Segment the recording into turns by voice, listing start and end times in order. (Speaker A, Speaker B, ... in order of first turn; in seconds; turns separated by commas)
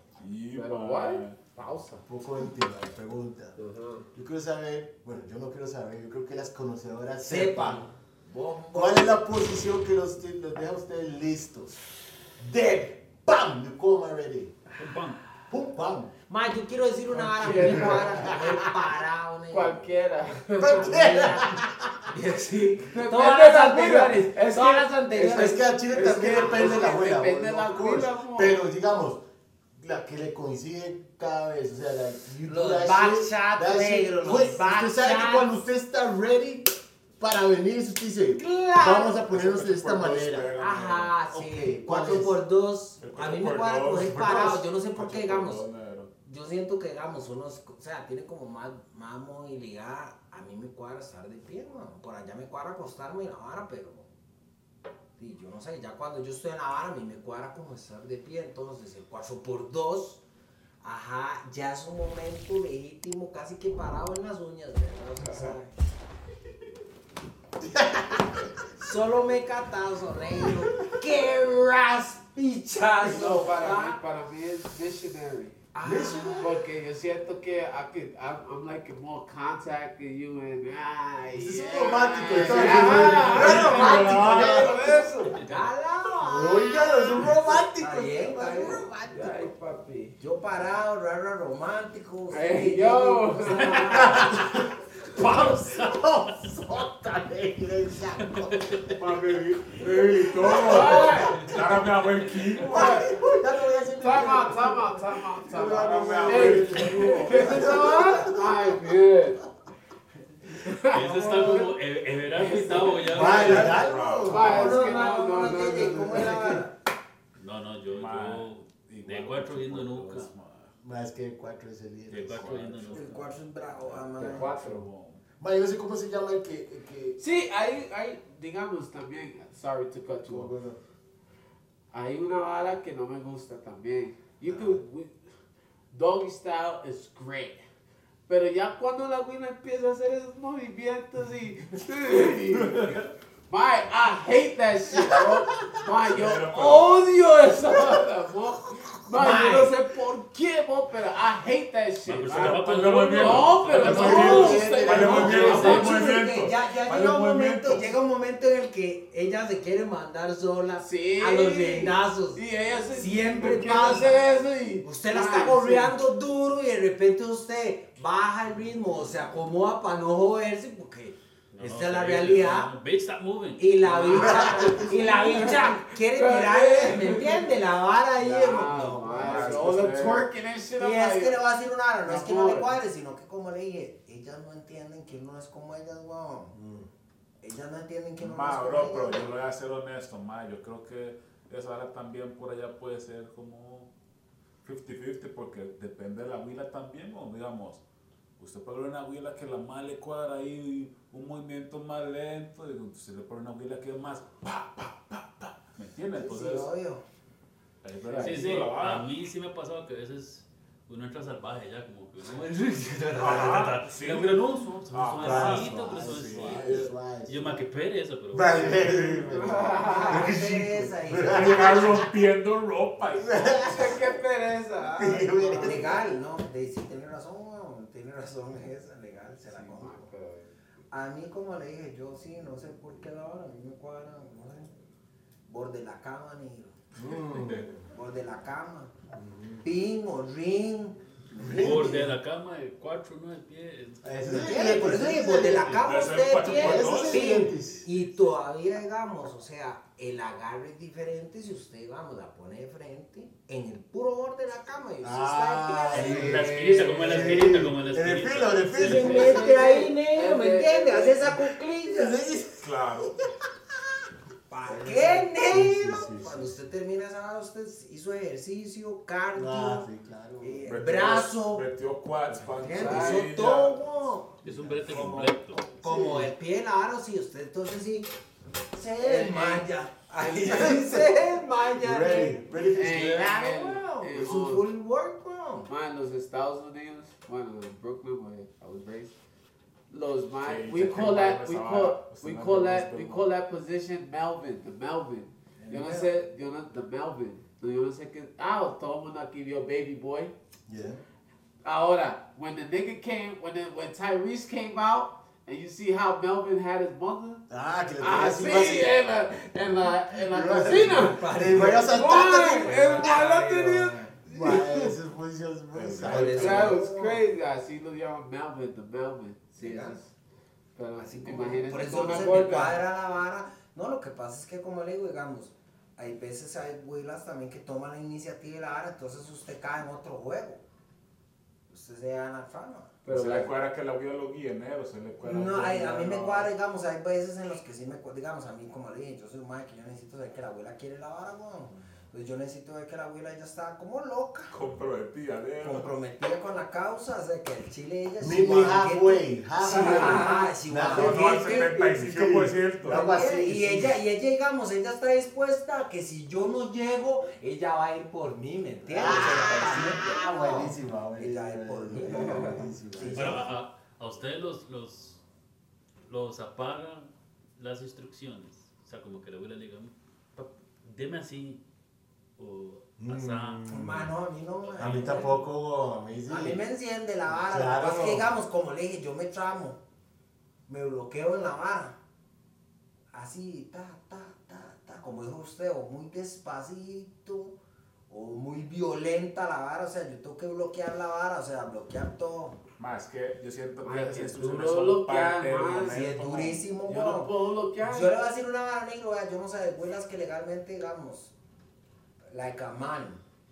Speaker A: 0.2-1.4, Speaker B: 0.5-2.0, Speaker C: 2.1-3.6, Speaker B: 3.6-4.1, Speaker C: 4.1-7.9, Speaker D: 7.2-9.1, Speaker C: 8.7-11.7, Speaker C: 12.4-14.6, Speaker E: 14.8-15.2, Speaker C: 15.5-16.1, Speaker D: 16.3-19.9, Speaker B: 17.1-18.4, Speaker C: 17.4-18.6, Speaker B: 19.5-21.4, Speaker C: 20.6-22.1, Speaker D: 20.7-21.5, Speaker D: 22.1-27.0, Speaker B: 22.9-28.6, Speaker C: 25.2-29.2, Speaker C: 29.8-40.5, Speaker D: 32.4-35.5, Speaker D: 38.3-39.2, Speaker A: 39.3-41.1, Speaker D: 40.6-45.6, Speaker C: 41.3-42.4, Speaker A: 43.0-46.1, Speaker D: 46.2-54.1, Speaker D: 55.2-60.2, Speaker D: 60.8-65.7, Speaker B: 65.2-65.5, Speaker C: 67.6-68.5, Speaker D: 68.8-74.0, Speaker C: 70.4-71.0, Speaker B: 73.0-75.6, Speaker D: 75.7-76.5, Speaker C: 75.8-76.5, Speaker B: 76.4-85.4, Speaker C: 81.3-84.7, Speaker A: 82.4-84.8, Speaker D: 83.6-84.1, Speaker E: 84.4-85.7, Speaker D: 85.4-89.3, Speaker C: 86.2-89.4, Speaker B: 89.1-90.2, Speaker D: 90.2-94.5, Speaker B: 92.3-94.4, Speaker C: 93.9-101.6, Speaker E: 95.2-95.9, Speaker E: 98.3-98.8, Speaker A: 99.0-103.1, Speaker B: 100.4-101.4, Speaker E: 102.4-102.7, Speaker C: 102.5-108.8, Speaker B: 102.7-103.1, Speaker B: 103.9-109.4, Speaker A: 105.5-107.7, Speaker E: 106.6-106.9, Speaker B: 110.5-111.7, Speaker E: 110.9-113.8, Speaker A: 111.2-111.5, Speaker B: 112.3-116.6, Speaker C: 113.1-116.4, Speaker A: 113.2-115.0, Speaker D: 114.4-116.7, Speaker E: 117.4-120.3, Speaker A: 117.9-120.7, Speaker C: 120.8-122.6, Speaker E: 122.1-123.3, Speaker A: 122.3-123.1, Speaker D: 122.9-124.5, Speaker A: 123.7-125.2, Speaker B: 124.1-124.8, Speaker C: 125.4-127.2, Speaker B: 127.2-130.5, Speaker C: 130.2-130.8, Speaker B: 131.9-135.2, Speaker B: 135.9-137.6, Speaker B: 138.3-156.1, Speaker A: 142.7-143.1, Speaker C: 145.0-145.7, Speaker A: 146.1-147.0, Speaker D: 149.2-149.7, Speaker E: 152.0-154.8, Speaker A: 152.2-157.9, Speaker C: 153.8-155.6, Speaker D: 153.9-164.3, Speaker B: 160.8-165.9, Speaker D: 164.8-172.7, Speaker E: 171.5-174.1, Speaker D: 173.6-179.8, Speaker B: 174.0-177.5, Speaker C: 174.1-175.2, Speaker B: 178.2-181.4, Speaker A: 179.1-180.3, Speaker D: 180.8-186.5, Speaker B: 182.0-182.8, Speaker C: 186.5-186.9, Speaker D: 187.4-189.2, Speaker A: 188.2-193.9, Speaker A: 194.6-197.8, Speaker A: 198.4-206.7, Speaker D: 206.1-207.0, Speaker A: 207.8-209.1, Speaker B: 208.0-208.6, Speaker E: 208.2-219.0, Speaker A: 213.1-214.3, Speaker A: 214.9-216.9, Speaker C: 215.2-217.7, Speaker C: 218.3-222.1, Speaker A: 218.7-219.4, Speaker B: 219.3-220.3, Speaker D: 219.5-221.9, Speaker A: 221.2-224.1, Speaker C: 223.2-224.2, Speaker B: 223.4-226.0, Speaker C: 224.9-225.9, Speaker D: 225.6-230.1, Speaker B: 229.4-230.5, Speaker D: 230.9-234.7, Speaker D: 235.5-236.8, Speaker C: 236.9-237.8, Speaker D: 237.9-238.9, Speaker C: 239.1-239.7, Speaker D: 239.6-240.9, Speaker C: 241.3-242.1, Speaker E: 241.4-248.2, Speaker C: 244.0-245.8, Speaker D: 244.3-256.3, Speaker A: 245.8-247.3, Speaker C: 246.5-247.8, Speaker C: 255.0-259.4, Speaker E: 255.9-259.3, Speaker B: 256.0-257.4, Speaker D: 258.7-262.2, Speaker B: 258.9-261.4, Speaker C: 261.8-262.7, Speaker A: 262.6-263.2, Speaker D: 264.5-269.9, Speaker C: 264.6-266.5, Speaker C: 269.3-270.7, Speaker D: 270.4-271.6, Speaker A: 270.6-273.8, Speaker D: 272.5-278.1, Speaker B: 272.8-273.3, Speaker E: 274.4-275.6, Speaker C: 275.8-276.3, Speaker D: 278.7-285.7, Speaker B: 279.0-279.6, Speaker B: 280.2-281.1, Speaker C: 281.8-282.9, Speaker B: 282.8-284.7, Speaker B: 285.7-289.1, Speaker B: 289.9-300.3, Speaker A: 290.4-293.3, Speaker D: 295.6-296.1, Speaker C: 300.7-301.0, Speaker B: 301.6-307.4, Speaker C: 307.5-308.9, Speaker B: 308.0-314.9, Speaker C: 309.8-313.2, Speaker D: 310.7-314.1, Speaker C: 314.2-316.9, Speaker A: 315.7-316.7, Speaker D: 316.0-317.3, Speaker B: 316.1-320.1, Speaker D: 319.6-320.0, Speaker B: 320.7-322.8, Speaker D: 321.0-330.6, Speaker D: 331.7-332.9, Speaker B: 333.1-333.5, Speaker A: 333.1-336.5, Speaker D: 335.2-344.5, Speaker A: 344.5-345.9, Speaker D: 345.6-351.9, Speaker C: 348.2-354.0, Speaker B: 349.7-350.4, Speaker A: 350.9-353.1, Speaker D: 352.8-363.5, Speaker C: 358.9-363.4, Speaker B: 359.1-360.2, Speaker B: 362.1-362.6, Speaker E: 363.1-365.2, Speaker E: 366.1-371.6, Speaker E: 372.4-373.6, Speaker C: 373.0-374.1, Speaker D: 373.7-375.4, Speaker C: 374.7-376.6, Speaker E: 374.8-375.2, Speaker D: 376.3-379.8, Speaker C: 377.2-378.3, Speaker D: 380.7-382.0, Speaker D: 383.1-387.5, Speaker D: 388.1-392.6, Speaker A: 392.8-396.7, Speaker B: 393.8-396.0, Speaker D: 395.9-401.3, Speaker B: 396.7-398.2, Speaker D: 402.3-403.2